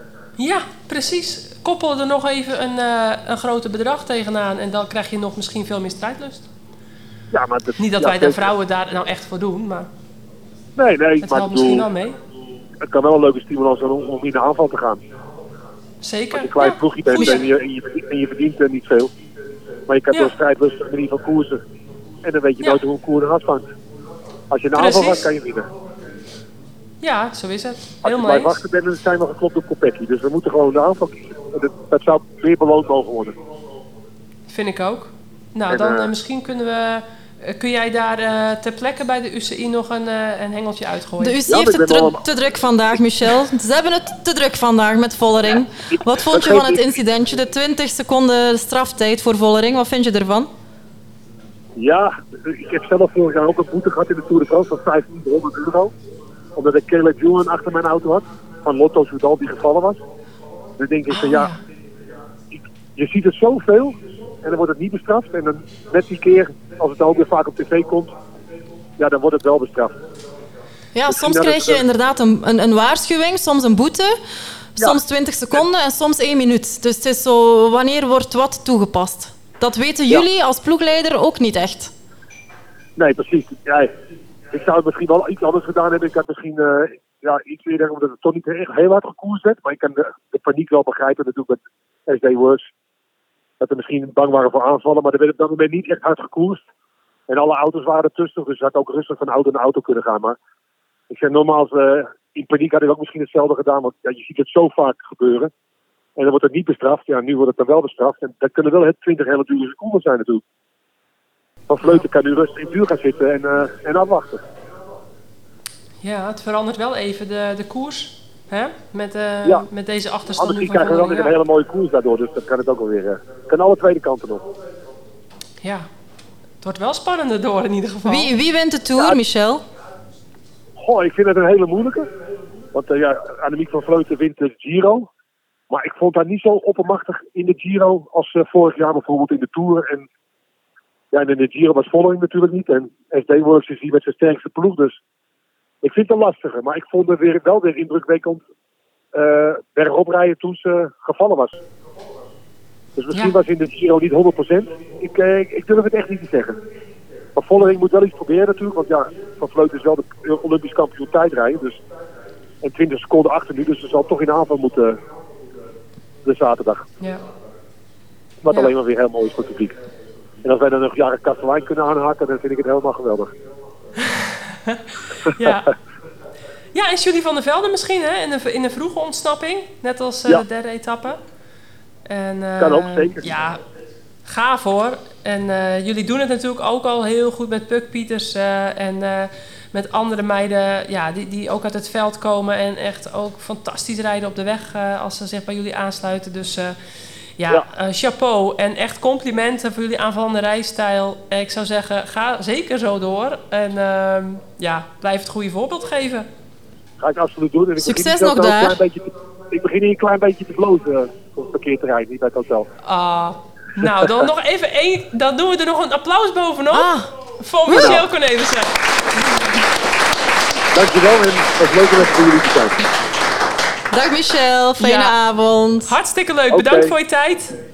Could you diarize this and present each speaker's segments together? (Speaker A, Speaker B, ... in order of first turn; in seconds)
Speaker A: 0.4-6.5, 7.8-9.9, 11.2-12.2, 16.0-17.4, 24.7-25.3, 27.0-28.6, 34.5-41.4, 61.1-61.6, 116.0-121.3, 125.6-125.9, 126.6-128.3, 174.0-174.8, 175.3-175.7, 176.7-181.2, 182.1-183.6, 184.2-196.8, 197.4-206.3, 212.8-218.8, 224.8-225.2, 225.9-227.6
Speaker B: 7.3-8.5, 10.8-11.9, 12.8-15.0, 16.3-19.1, 19.9-21.6, 22.2-23.6, 24.5-25.7, 28.0-33.3, 35.7-36.1, 41.5-42.2, 46.3-46.9, 51.8-55.9, 56.5-60.0, 60.8-61.5, 62.5-68.1, 69.0-69.9, 71.1-71.8, 83.0-83.9, 84.5-92.6, 93.6-96.6, 97.3-100.4, 101.1-105.5, 106.2-110.4, 111.7-114.4, 120.4-124.4, 130.8-132.1, 132.7-135.1, 135.7-140.1, 141.1-144.9, 145.8-148.4, 149.1-151.6, 153.0-156.6, 157.3-161.8, 162.6-165.0, 166.2-166.8, 168.4-169.8, 170.4-173.3, 182.6-183.3, 207.0-212.7, 217.7-218.0, 220.7-222.7, 226.5-226.9
Speaker C: 41.2-50.5, 70.9-74.2, 74.8-81.9, 128.0-129.6, 207.8-208.8, 216.7-217.1, 217.7-218.0, 223.9-225.9